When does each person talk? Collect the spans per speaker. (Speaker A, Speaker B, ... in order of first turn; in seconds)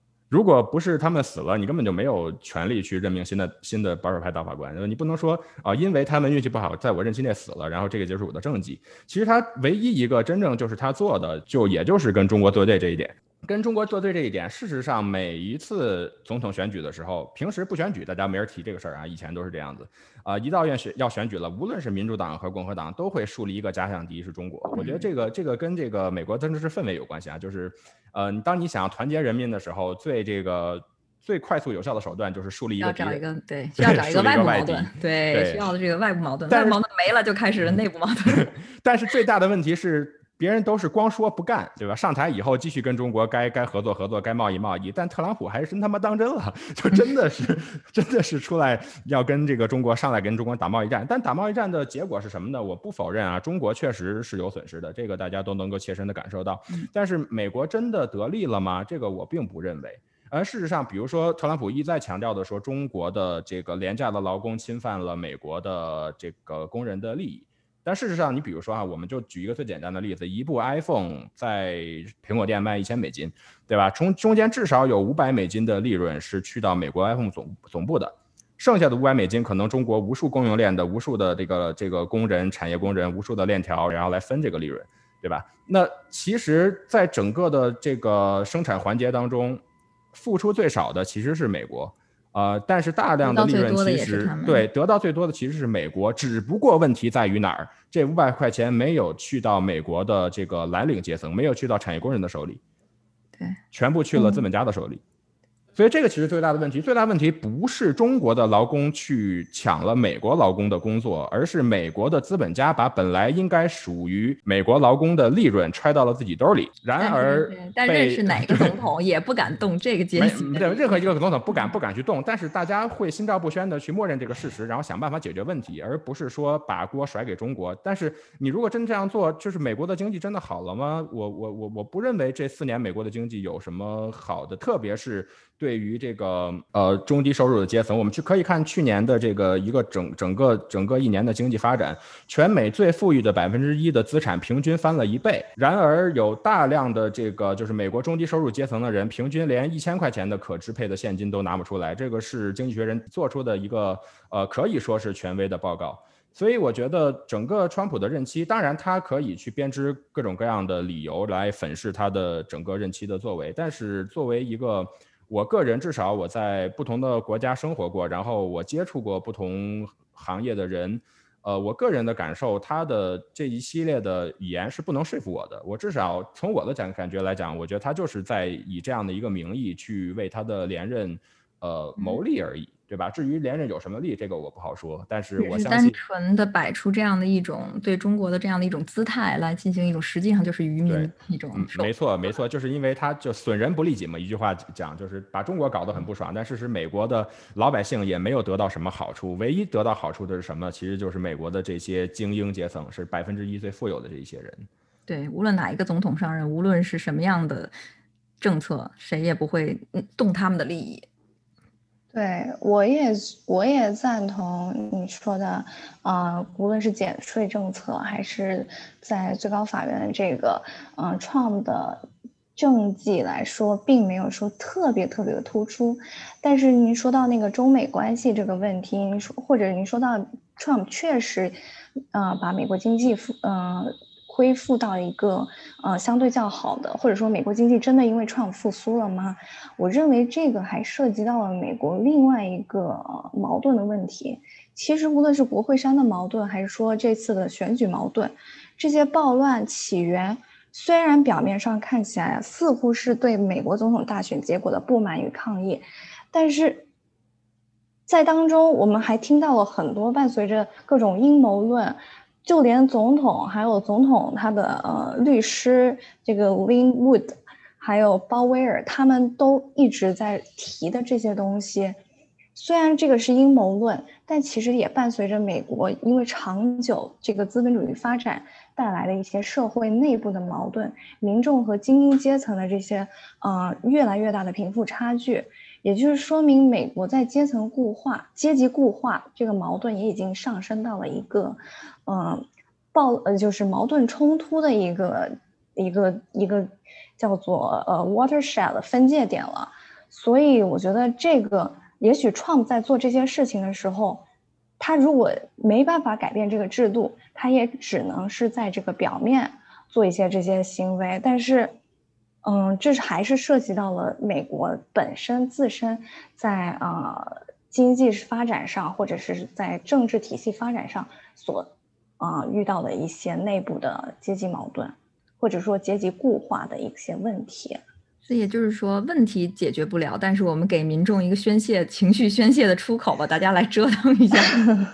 Speaker A: 0.3-33.2, 33.8-35.6, 36.5-36.8, 38.3-89.6, 90.1-102.6, 103.7-105.0, 105.7-118.7, 120.2-186.0, 190.8-204.7
Speaker B: 24.7-25.1, 32.8-38.5, 93.2-94.7, 104.1-104.4, 117.0-121.0, 182.0-182.2, 185.4-191.9, 205.1-207.7, 208.4-211.1, 328.2-334.6
Speaker C: 212.1-231.6, 232.1-256.9, 258.1-272.0, 272.5-304.2, 304.8-311.8, 312.4-327.8